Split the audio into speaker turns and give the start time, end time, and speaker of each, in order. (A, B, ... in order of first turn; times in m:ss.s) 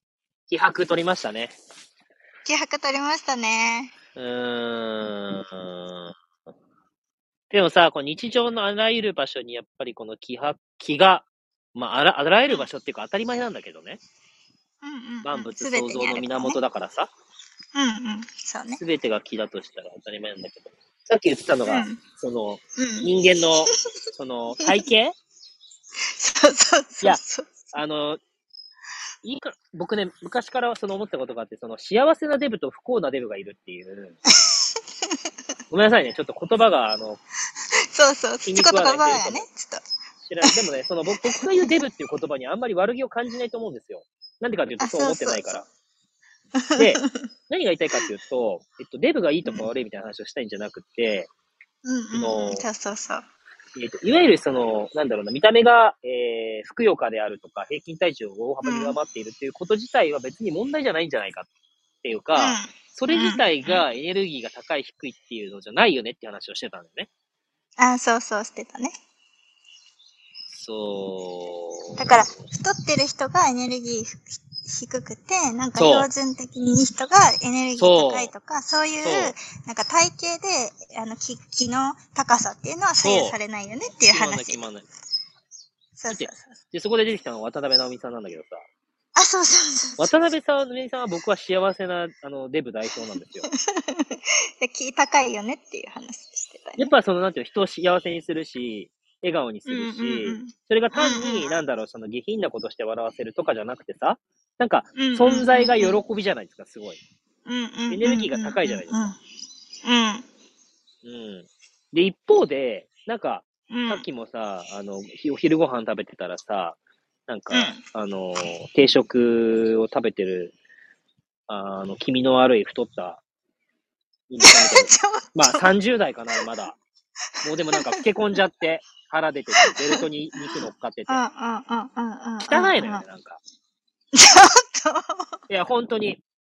0:00.5-0:01.6 A
0:02.4-0:03.9 B
0:04.2-0:06.1 A
0:07.5-0:14.0 A
0:14.8-0:16.6 B
0:15.2-0:17.1 A
0:17.7-0:18.8 B
0:18.8-0:25.2 A
0:21.6-0:22.0 B
0:22.8-0:23.1 B
0:26.1-0:27.7 B
0:27.7-0:28.2 A
0:29.2-0:34.2 A
0:34.4-0:35.1 B
0:35.7-0:37.2 A
0:37.9-0:39.8 B
0:38.4-0:39.5 A
0:40.2-0:45.6 A
0:41.2-0:41.5 B
0:44.8-0:45.6 B
0:46.6-0:47.2 B
0:46.8-0:51.3 A
0:51.8-0:53.2 B
0:52.1-0:52.6 A
0:53.8-1:01.5 A
0:58.6-0:59.0 B
1:02.0-1:07.1 A
1:02.3-1:03.8 B
1:07.8-1:09.0 B
1:10.5-1:12.1 A
1:12.0-1:24.6 B
1:15.8-1:16.1 A
1:17.8-1:18.3 A
1:19.0-1:19.3 A
1:23.0-1:23.4 A
1:24.1-1:24.9 A
1:26.0-1:26.6 B
1:26.1-1:28.6 A
1:29.1-1:30.2 B
1:30.0-1:33.5 A
1:33.5-1:36.9 B
1:36.8-1:47.0 A
1:39.7-1:41.5 B
1:45.0-1:46.0 B
1:47.4-1:49.2 B
1:47.9-1:49.1 A
1:49.8-1:50.2 B
1:51.0-2:00.5 A
1:53.7-1:54.0 B
1:57.5-1:57.8 B
2:01.5-2:03.2 A
2:04.3-2:06.8 A
2:04.4-2:05.7 B
2:07.4-2:11.2 A
2:07.7-2:08.0 B
2:09.6-2:10.0 B
2:11.1-2:13.0 B
2:12.5-2:13.4 A
2:14.1-2:15.3 B
2:15.5-2:16.2 A